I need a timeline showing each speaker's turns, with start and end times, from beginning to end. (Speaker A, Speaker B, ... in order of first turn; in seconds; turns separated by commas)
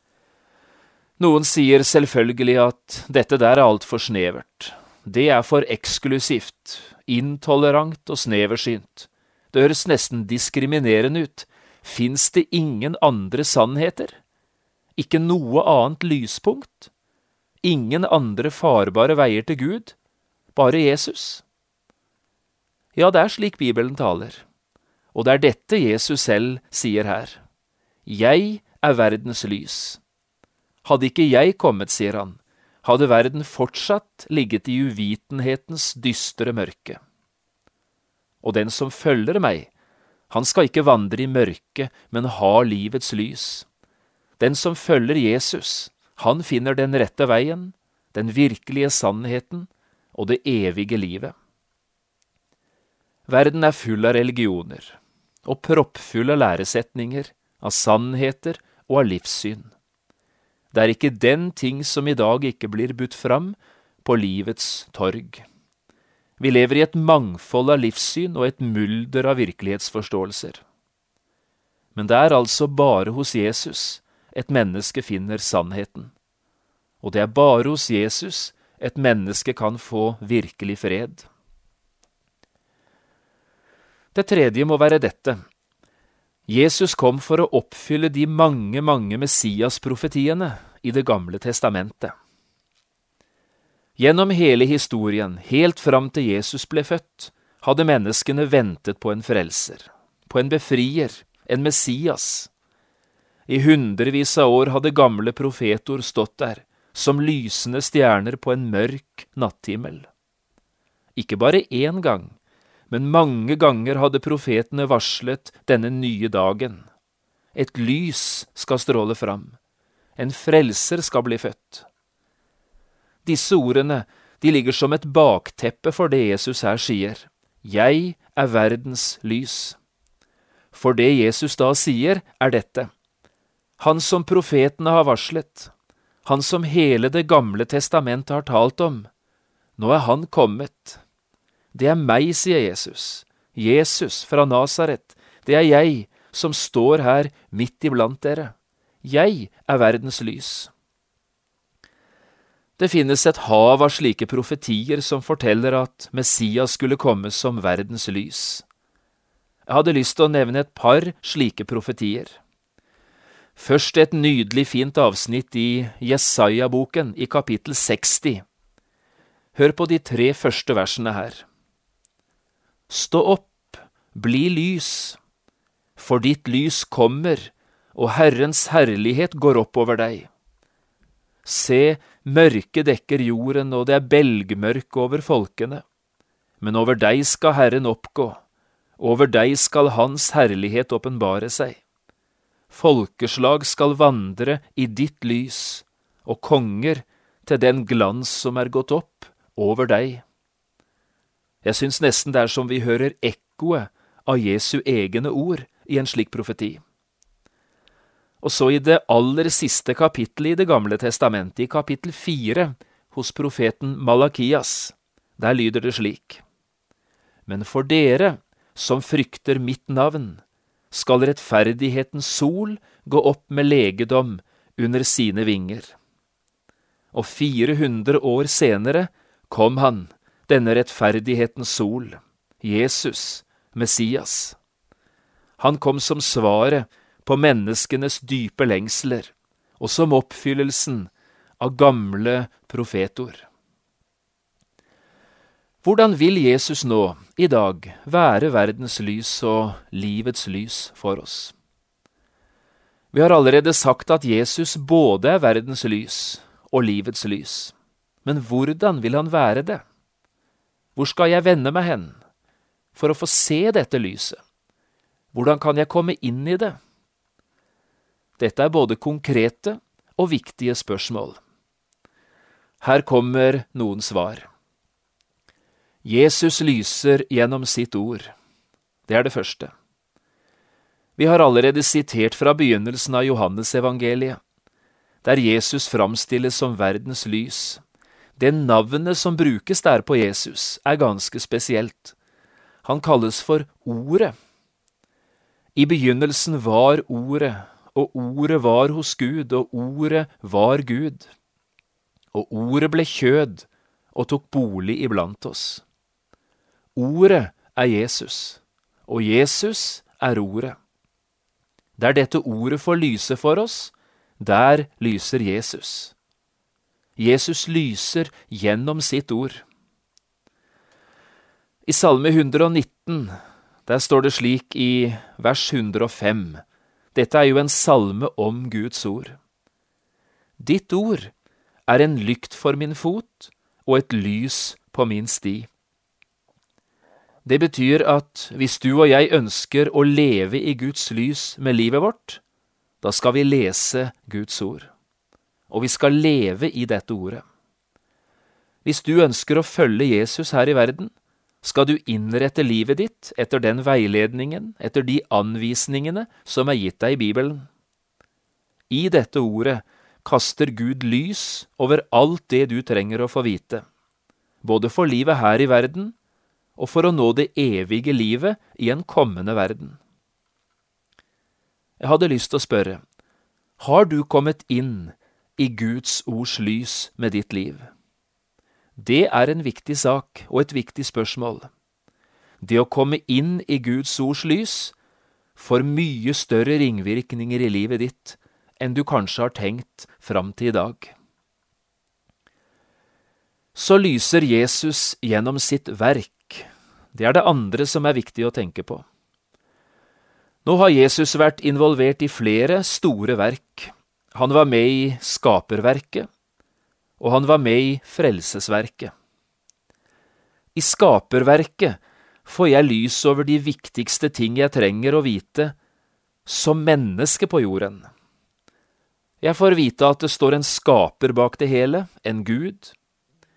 Speaker A: 1.2-14.2, Speaker A: 15.0-16.9, Speaker A: 17.6-19.9, Speaker A: 20.6-21.4, Speaker A: 22.9-24.4, Speaker A: 25.1-27.4, Speaker A: 28.1-30.0, Speaker A: 30.8-37.0, Speaker A: 38.4-39.7, Speaker A: 40.3-43.7, Speaker A: 44.4-51.3, Speaker A: 53.3-59.7, Speaker A: 60.7-65.5, Speaker A: 66.4-70.6, Speaker A: 72.0-76.1, Speaker A: 77.0-81.3, Speaker A: 84.1-85.4, Speaker A: 86.5-92.1, Speaker A: 94.0-102.5, Speaker A: 103.5-110.1, Speaker A: 111.2-112.4, Speaker A: 112.9-116.8, Speaker A: 117.5-119.6, Speaker A: 120.2-121.9, Speaker A: 123.2-129.8, Speaker A: 130.7-132.9, Speaker A: 133.8-135.7, Speaker A: 136.2-139.1, Speaker A: 139.8-141.0, Speaker A: 141.7-150.7, Speaker A: 152.8-158.6, Speaker A: 159.7-162.4, Speaker A: 163.6-168.4, Speaker A: 169.6-171.4, Speaker A: 172.9-175.2, Speaker A: 176.0-180.3, Speaker A: 181.4-185.8, Speaker A: 186.6-188.4, Speaker A: 189.0-191.8, Speaker A: 192.7-200.2, Speaker A: 201.6-206.8, Speaker A: 208.4-216.4, Speaker A: 217.5-225.9, Speaker A: 227.1-234.6, Speaker A: 235.6-243.5, Speaker A: 245.8-251.5, Speaker A: 253.1-257.7, Speaker A: 258.2-259.8, Speaker A: 261.0-262.2, Speaker A: 262.9-264.4, Speaker A: 265.3-266.8, Speaker A: 268.4-271.4, Speaker A: 272.8-274.5, Speaker A: 276.0-278.3, Speaker A: 279.1-279.7, Speaker A: 281.2-284.4, Speaker A: 285.2-287.8, Speaker A: 288.4-292.1, Speaker A: 292.9-294.3, Speaker A: 295.8-301.3, Speaker A: 302.3-305.8, Speaker A: 307.0-310.8, Speaker A: 312.0-316.1, Speaker A: 317.2-319.6, Speaker A: 321.9-323.4, Speaker A: 323.9-326.6, Speaker A: 327.1-329.4, Speaker A: 330.6-331.3, Speaker A: 331.9-335.7, Speaker A: 337.4-342.4, Speaker A: 343.0-344.9, Speaker A: 345.7-347.4, Speaker A: 348.9-357.7, Speaker A: 358.9-363.9, Speaker A: 364.6-366.1, Speaker A: 366.8-370.0, Speaker A: 372.0-373.0, Speaker A: 373.8-377.9, Speaker A: 379.0-381.7, Speaker A: 382.6-384.9, Speaker A: 385.6-391.1, Speaker A: 393.8-399.1, Speaker A: 400.6-406.3, Speaker A: 407.2-409.1, Speaker A: 410.8-415.8, Speaker A: 416.5-418.1, Speaker A: 419.4-422.9